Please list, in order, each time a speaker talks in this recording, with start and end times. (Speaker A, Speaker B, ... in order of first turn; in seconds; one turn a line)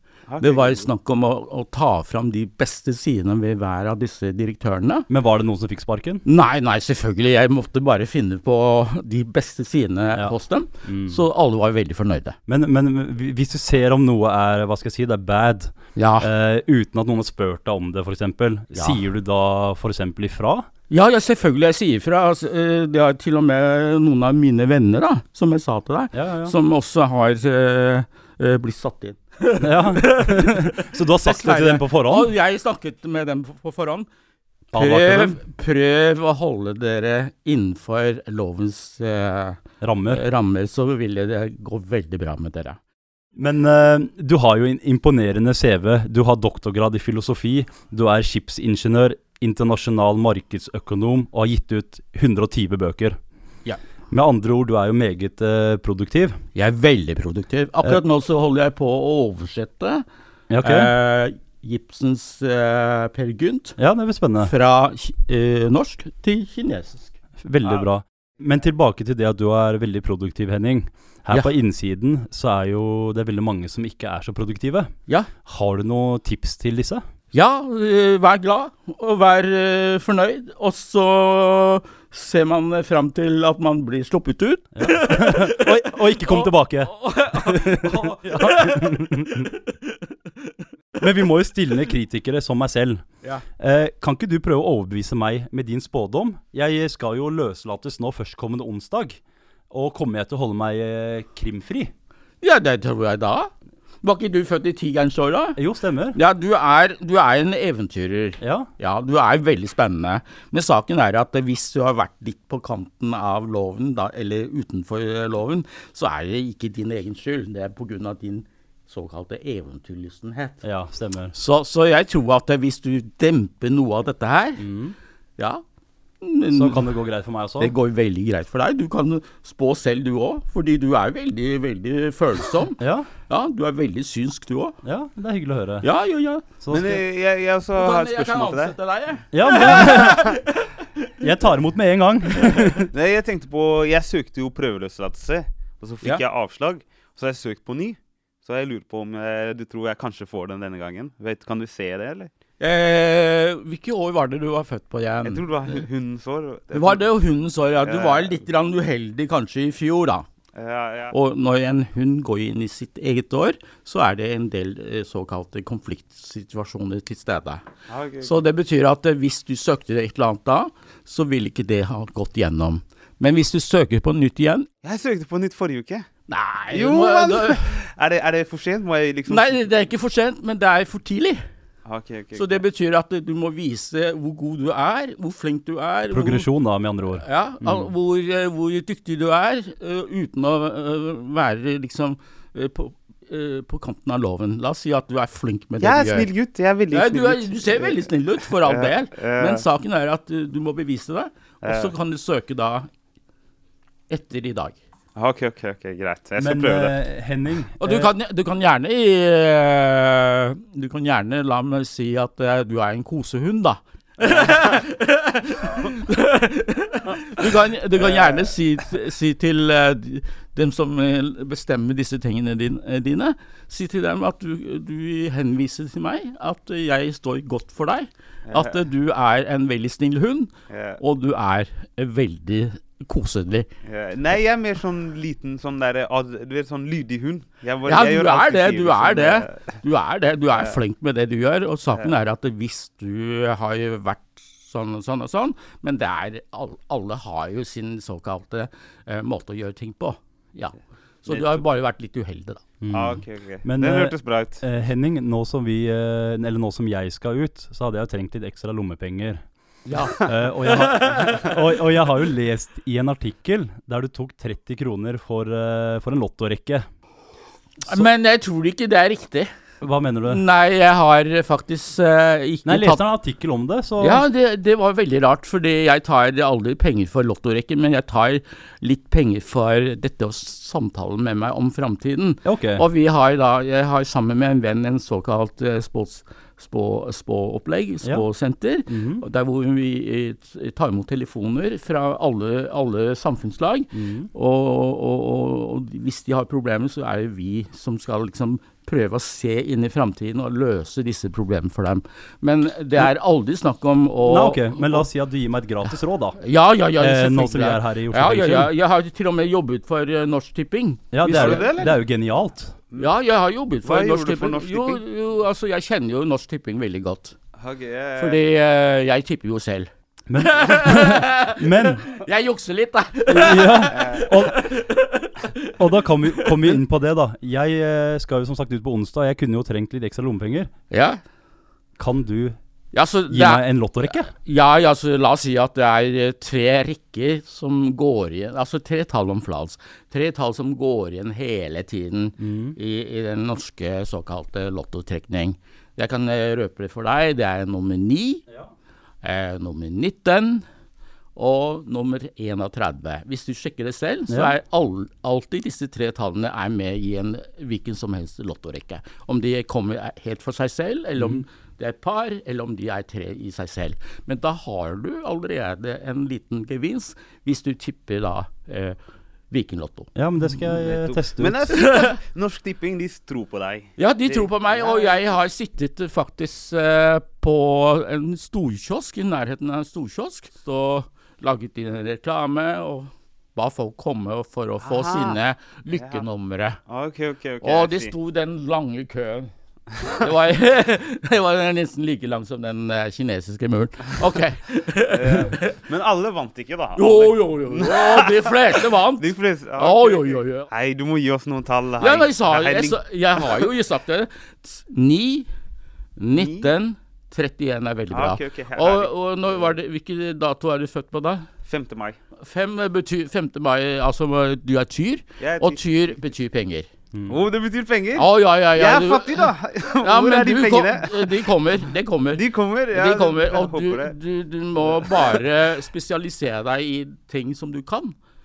Speaker A: 0.3-0.9
Speaker B: 0.4-5.1
Speaker C: 5.1-6.2
Speaker B: 6.2-12.4
Speaker C: 10.2-11.2
Speaker C: 12.5-20.6
Speaker B: 16.0-16.3
Speaker B: 20.9-34.1
Speaker C: 26.1-26.5
Speaker C: 29.6-32.3
Speaker C: 34.7-35.4
Speaker B: 34.8-42.8
Speaker C: 39.8-40.2
Speaker C: 43.4-53.2
Speaker C: 54.1-56.4
Speaker B: 56.5-60.0
Speaker C: 60.5-60.9
Speaker B: 60.6-63.8
Speaker C: 63.8-64.5
Speaker B: 64.4-67.1
Speaker C: 67.4-74.9
Speaker C: 75.4-77.0
Speaker B: 77.3-90.5
Speaker C: 84.8-89.5
Speaker C: 91.0-93.0
Speaker C: 93.6-99.2
Speaker C: 99.7-101.9
Speaker B: 102.4-103.5
Speaker B: 104.0-105.6
Speaker C: 105.6-106.2
Speaker B: 106.1-120.6
Speaker C: 108.4-108.7
Speaker C: 120.6-121.3
Speaker B: 121.3-124.6
Speaker C: 124.6-124.9
Speaker B: 125.4-125.6
Speaker B: 126.2-126.8
Speaker C: 126.5-127.7
Speaker B: 127.6-134.8
Speaker C: 132.8-133.1
Speaker C: 134.8-135.9
Speaker B: 135.8-136.4
Speaker C: 136.4-137.0
Speaker A: 136.7-138.7
Speaker B: 137.8-140.8
Speaker C: 139.3-140.3
Speaker C: 141.2-142.9
Speaker A: 142.4-152.3
Speaker B: 152.6-155.8
Speaker A: 155.2-157.0
Speaker B: 156.7-160.2
Speaker A: 157.8-158.4
Speaker A: 160.6-161.1
Speaker B: 161.1-167.6
Speaker A: 167.9-168.4
Speaker B: 168.2-174.7
Speaker A: 174.8-176.1
Speaker B: 176.3-177.7
Speaker A: 176.7-179.7
Speaker B: 179.3-181.4
Speaker A: 181.9-182.6
Speaker B: 182.3-186.5
Speaker C: 186.1-187.9
Speaker B: 187.2-196.3
Speaker A: 195.8-198.1
Speaker B: 196.9-202.9
Speaker A: 198.6-199.6
Speaker A: 201.6-201.9
Speaker B: 204.1-204.8
Speaker A: 205.2-206.9
Speaker C: 206.4-208.1
Speaker B: 207.8-233.7
Speaker A: 218.0-218.5
Speaker A: 228.5-228.8
Speaker A: 230.7-231.0
Speaker A: 233.8-239.8
Speaker B: 237.9-252.6
Speaker A: 251.3-251.6
Speaker C: 252.8-259.4
Speaker A: 252.9-254.6
Speaker B: 259.9-261.6
Speaker C: 260.2-266.9
Speaker B: 267.9-269.5
Speaker C: 269.8-270.4
Speaker B: 270.3-273.0
Speaker C: 272.6-274.2
Speaker B: 274.0-305.1
Speaker C: 282.4-282.9
Speaker C: 288.9-289.2
Speaker C: 293.9-294.3
Speaker C: 304.2-306.4
Speaker B: 306.4-311.9
Speaker C: 307.0-308.7
Speaker C: 311.1-312.7
Speaker A: 311.2-311.9
Speaker B: 313.0-317.4
Speaker A: 313.9-315.0
Speaker A: 317.6-318.4
Speaker B: 318.2-325.7
Speaker C: 320.3-322.1
Speaker C: 323.3-324.6
Speaker A: 323.9-324.2
Speaker C: 325.8-330.7
Speaker B: 326.3-326.8
Speaker B: 330.9-331.2
Speaker C: 332.0-332.6
Speaker B: 332.9-348.4
Speaker C: 333.3-334.3
Speaker C: 342.4-342.8
Speaker B: 349.2-350.6
Speaker B: 351.4-369.0
Speaker C: 354.3-354.6
Speaker C: 361.2-361.4
Speaker B: 369.5-370.1
Speaker C: 370.1-371.8
Speaker A: 370.8-375.4
Speaker B: 371.7-372.1
Speaker B: 374.0-386.8
Speaker A: 384.9-385.4
Speaker A: 385.9-386.2
Speaker A: 386.9-388.1
Speaker B: 387.6-389.5
Speaker B: 390.0-395.8
Speaker A: 395.1-398.3
Speaker B: 396.9-399.3
Speaker A: 399.2-403.6
Speaker B: 399.8-400.7
Speaker B: 402.0-405.5
Speaker B: 406.2-411.5
Speaker A: 406.4-406.7
Speaker A: 408.1-409.7
Speaker A: 411.6-412.2
Speaker B: 412.4-416.9
Speaker A: 415.4-416.2
Speaker C: 417.1-417.4
Speaker A: 417.3-421.4
Speaker B: 418.2-422.4
Speaker A: 422.4-424.1
Speaker B: 422.9-428.2
Speaker A: 424.9-425.4